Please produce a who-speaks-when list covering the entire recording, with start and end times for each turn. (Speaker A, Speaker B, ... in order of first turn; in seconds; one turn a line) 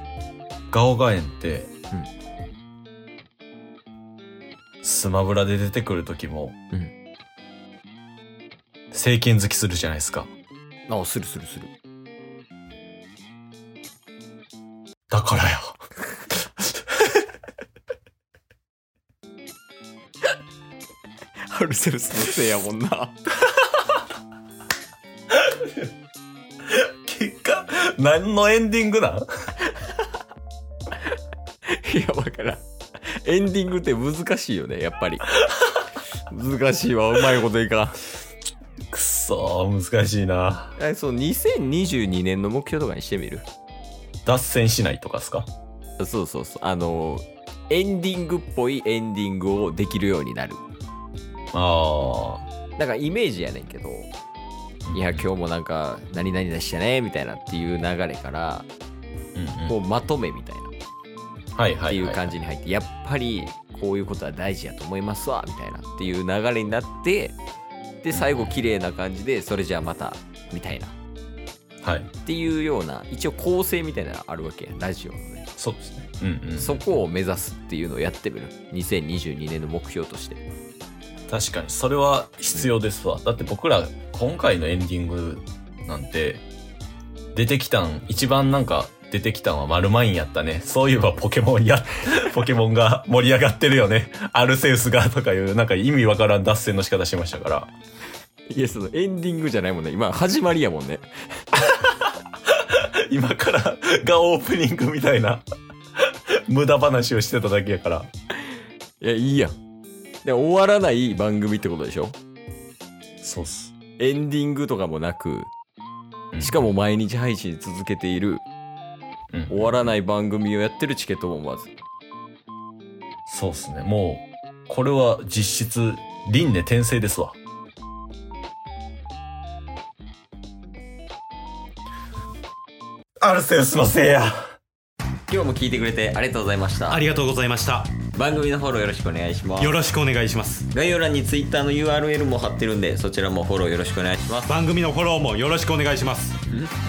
Speaker A: 0.7-1.7
Speaker A: 4.8-6.6
Speaker A: 8.9-10.3
Speaker B: 10.9-11.7
Speaker A: 15.1-15.8
Speaker B: 21.5-23.1
Speaker A: 25.4-25.7
Speaker A: 26.6-29.3
Speaker B: 31.7-32.6
Speaker B: 33.2-35.4
Speaker B: 36.3-38.0
Speaker A: 38.9-40.8
Speaker B: 40.8-43.5
Speaker A: 44.2-45.5
Speaker B: 46.0-50.6
Speaker A: 51.5-52.5
Speaker B: 52.8-54.1
Speaker A: 54.9-55.3
Speaker B: 54.9-58.7
Speaker A: 59.4-59.8
Speaker B: 59.7-60.7
Speaker A: 61.6-62.4
Speaker B: 61.9-67.4
Speaker B: 68.0-71.0
Speaker A: 68.1-68.5
Speaker A: 71.8-72.1
Speaker B: 72.2-75.5
Speaker A: 75.6-77.0
Speaker B: 76.6-80.4
Speaker A: 81.3-86.5
Speaker A: 87.3-97.7
Speaker B: 98.5-101.1
Speaker A: 101.7-105.5
Speaker A: 106.1-108.1
Speaker B: 109.0-109.5
Speaker B: 110.2-112.2
Speaker A: 113.2-113.7
Speaker B: 114.0-115.5
Speaker A: 116.3-116.7
Speaker B: 116.4-118.5
Speaker A: 119.3-119.9
Speaker B: 119.5-121.7
Speaker A: 123.3-127.4
Speaker A: 133.2-134.4
Speaker B: 135.3-137.1
Speaker C: 136.9-137.9
Speaker B: 138.1-139.8
Speaker C: 139.6-140.7
Speaker B: 140.7-144.5
Speaker C: 144.5-146.4